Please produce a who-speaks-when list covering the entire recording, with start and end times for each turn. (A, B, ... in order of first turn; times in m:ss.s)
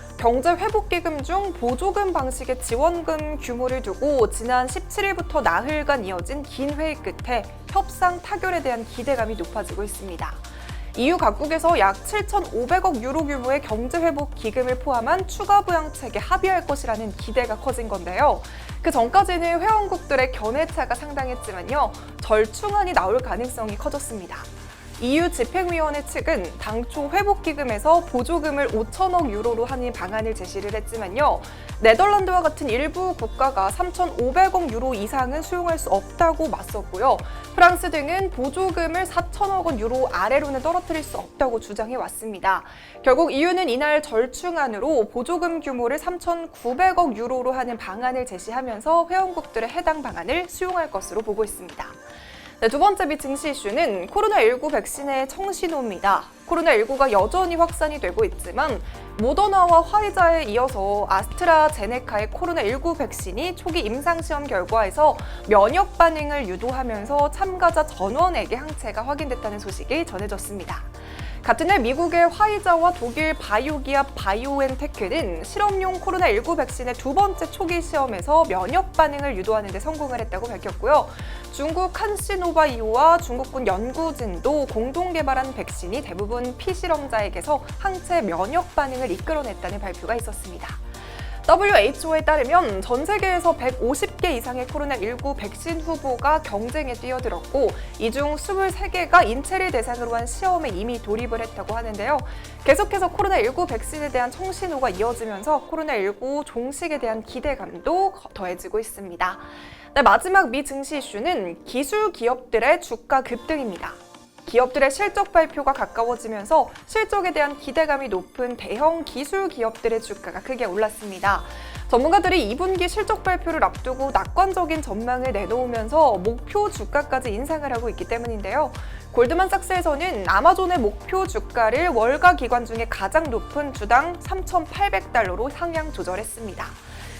0:00.2-0:52.0 A
0:52.6-1:30.8 A
1:31.4-2:16.8 A